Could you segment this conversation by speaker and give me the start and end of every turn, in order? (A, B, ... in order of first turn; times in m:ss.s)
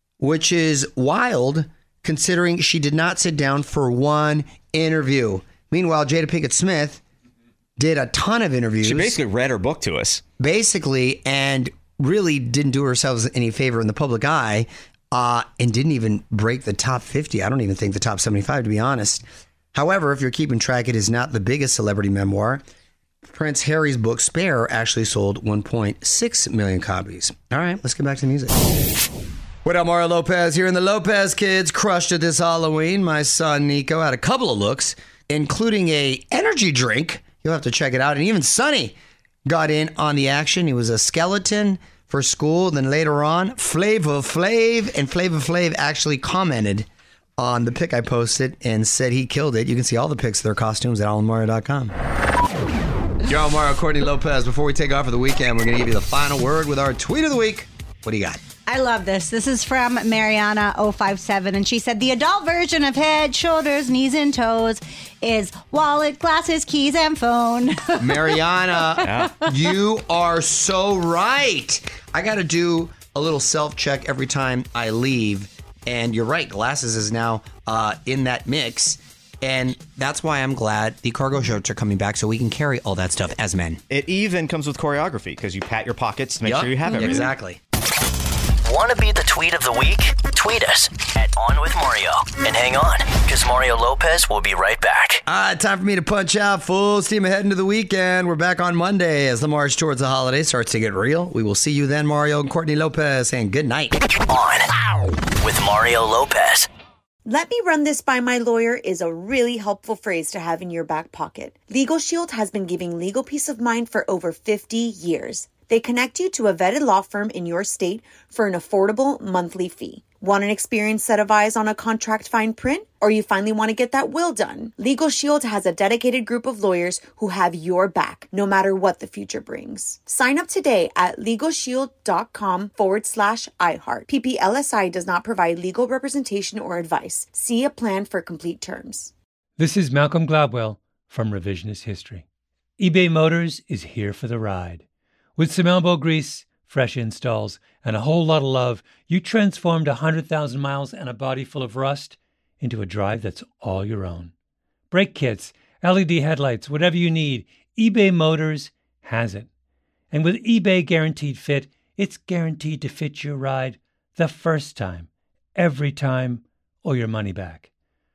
0:00.2-0:07.0 A
0:07.8-0:09.2 A
0:08.8-0:10.2 B
0:10.4-0:22.6 A
0:23.2-0:28.6 A
0:29.6-0:46.9 A
0:47.4-0:51.9 A
0:53.2-0:58.4 A
0:58.6-1:08.2 C
1:08.0-1:23.8 A
1:09.0-1:09.3 B
1:23.9-1:27.3 B
1:26.4-1:27.6 A
1:28.6-1:35.2 D
1:35.2-1:44.0 A
1:44.3-1:44.7 D
1:45.4-1:46.7 D
1:47.2-2:19.1 E
2:19.6-2:22.2 F
2:22.8-2:24.8 F
2:25.4-2:34.3 F
2:34.9-2:39.5 F
2:40.1-2:47.7 F